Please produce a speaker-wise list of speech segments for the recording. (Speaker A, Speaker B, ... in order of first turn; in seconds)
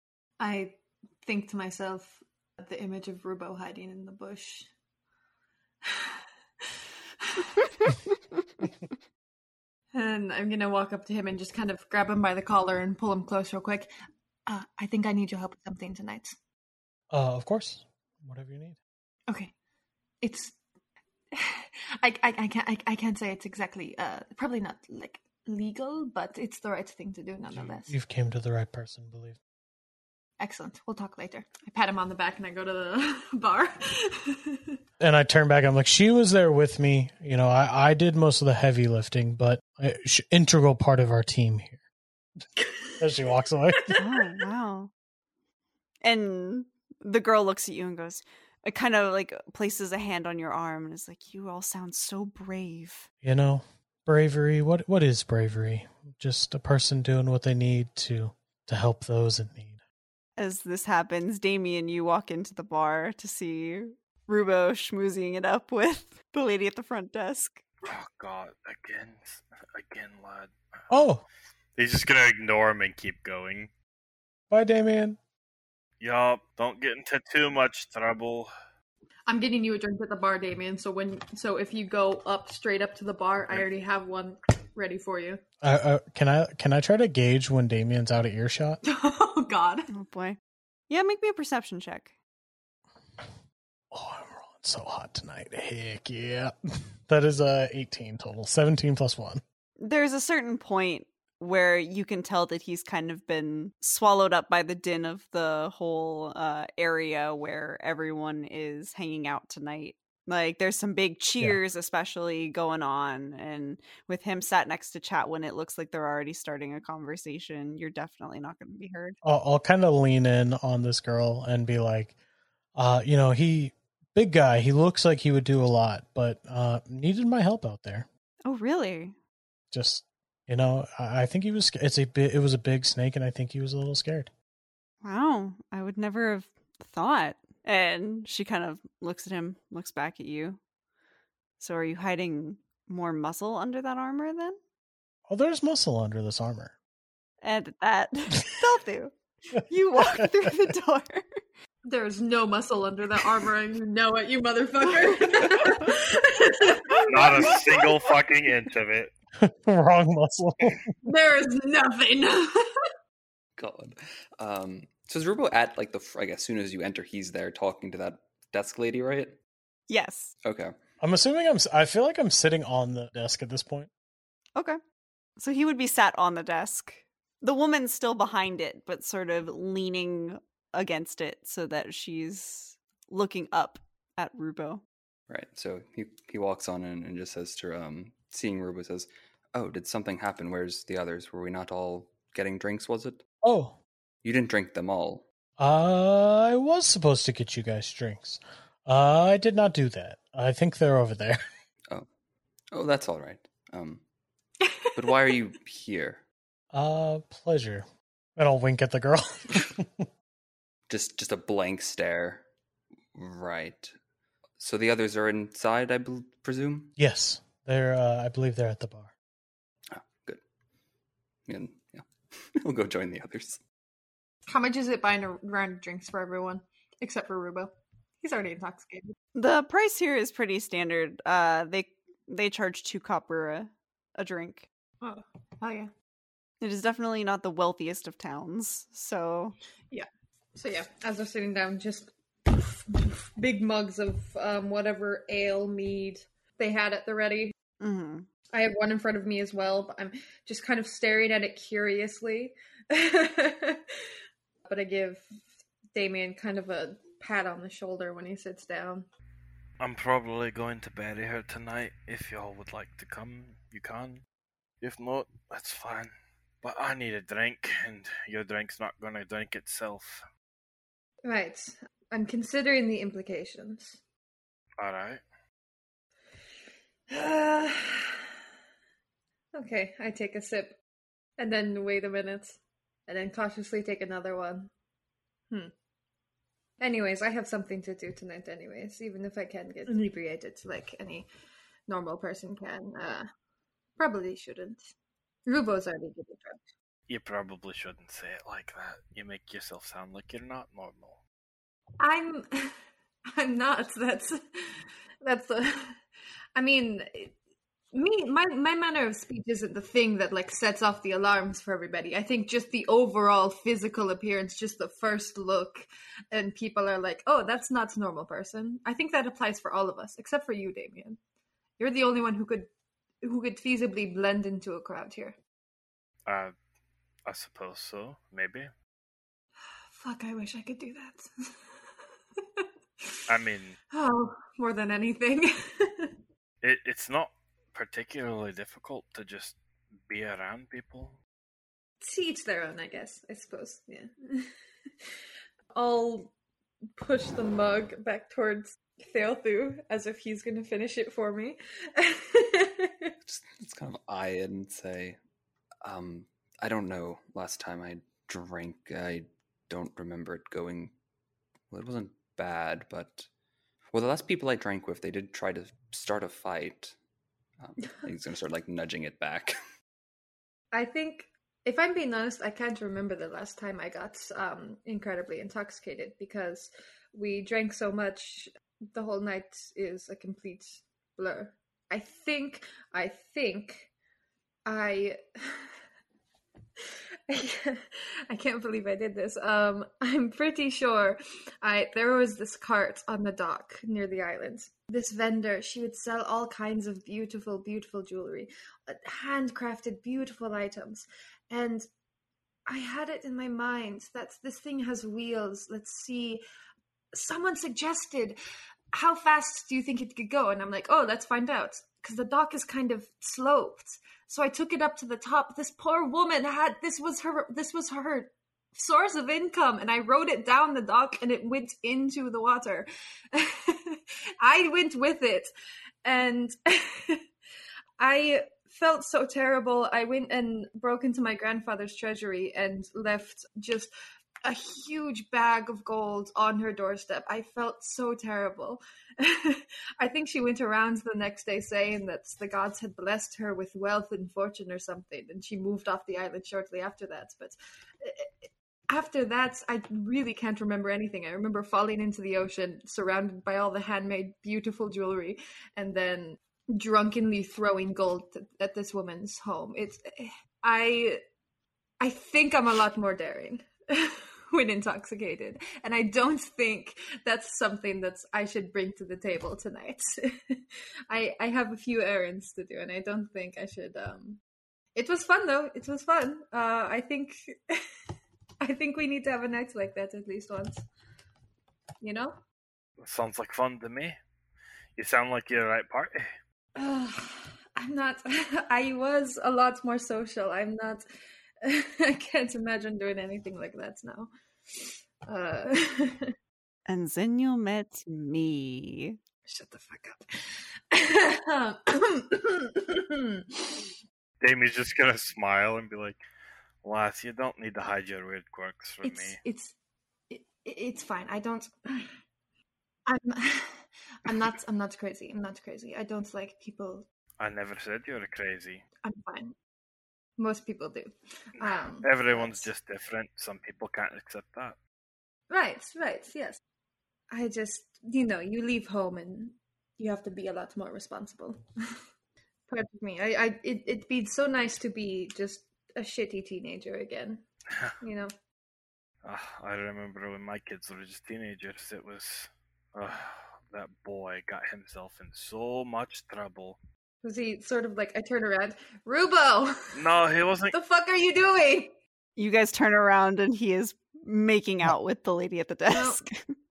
Speaker A: 0.4-4.7, 5.8-6.7, 7.2-7.7, 9.9-13.9, 14.4-16.3, 19.3-19.5, 20.2-20.6, 21.3-27.9, 30.4-34.8, 42.6-43.1, 79.3-85.4, 88.8-89.9, 151.8-158.1, 161.0-162.7, 224.5-229.1, 235.0-235.9, 239.9-247.5, 248.5-253.9, 254.7-255.3, 255.9-259.1, 271.2-274.0, 277.1-278.3, 279.5-280.7, 281.4-284.7, 286.8-291.3, 291.9-293.3, 294.0-294.9, 295.4-296.6, 302.0-302.8, 303.3-306.0, 306.5-307.3, 307.9-321.2, 321.8-322.7, 323.2-325.4, 329.9-331.6, 332.4-333.1, 333.9-336.1, 342.0-344.5, 345.7-346.3, 347.0-353.1, 370.7-383.9, 384.6-385.7, 386.8-401.9, 402.6-406.4, 407.1-408.4, 408.9-425.5, 426.0-427.2, 428.0-433.9, 434.4-461.2, 462.0-474.4, 474.9-477.8, 478.6-480.8, 482.0-482.4, 486.8-491.1, 491.6-496.3, 499.5-503.9, 509.0-509.8, 510.3-512.1, 513.0-517.0, 519.0-519.5, 520.4-522.7, 525.5-526.6, 527.3-532.0, 532.7-537.4, 538.0-538.3, 547.2-550.0, 550.7-552.0, 555.9-556.2
Speaker B: 17.1-18.8, 27.5-29.4, 35.0-41.8, 43.0-44.0, 53.2-59.8, 70.9-71.2, 74.5-75.2, 85.6-88.8, 93.9-96.5, 97.0-99.4, 119.2-122.1, 122.8-128.1, 129.7-134.3, 145.3-146.7, 150.0-150.6, 159.4-160.9, 171.0-173.9, 193.4-193.8, 195.6-201.4, 206.7-207.8, 208.4-210.1, 217.0-219.1
Speaker C: 43.9-44.9, 46.0-53.1, 60.4-67.6, 89.9-90.4, 90.9-92.1, 99.8-119.2, 128.4-129.1, 135.0-140.6, 141.6-144.6, 147.4-149.1, 149.7-151.4, 169.9-170.3, 175.4-184.8, 229.3-234.7, 236.6-239.6, 247.8-248.3, 496.9-499.2, 552.4-556.4
Speaker D: 67.8-70.5, 71.8-73.7, 76.0-78.5, 157.1-159.1, 259.8-264.2, 264.8-266.1, 266.6-270.2, 274.8-275.2, 297.1-301.2, 326.2-326.5, 327.3-328.7, 333.3-333.8, 336.6-339.6, 340.1-341.2, 483.0-484.2, 484.9-486.3, 504.4-506.2, 506.8-509.4, 517.4-518.8, 521.6-524.8, 539.2-546.8, 549.9-550.7
Speaker E: 163.6-169.4, 170.4-170.7, 185.3-193.2, 194.2-195.2, 202.7-204.0, 204.9-206.2, 210.9-212.4, 213.1-213.9, 214.6-216.9, 219.9-220.4, 221.4-223.6, 353.2-355.2, 355.8-360.9, 361.7-363.3, 363.9-366.9, 367.6-369.5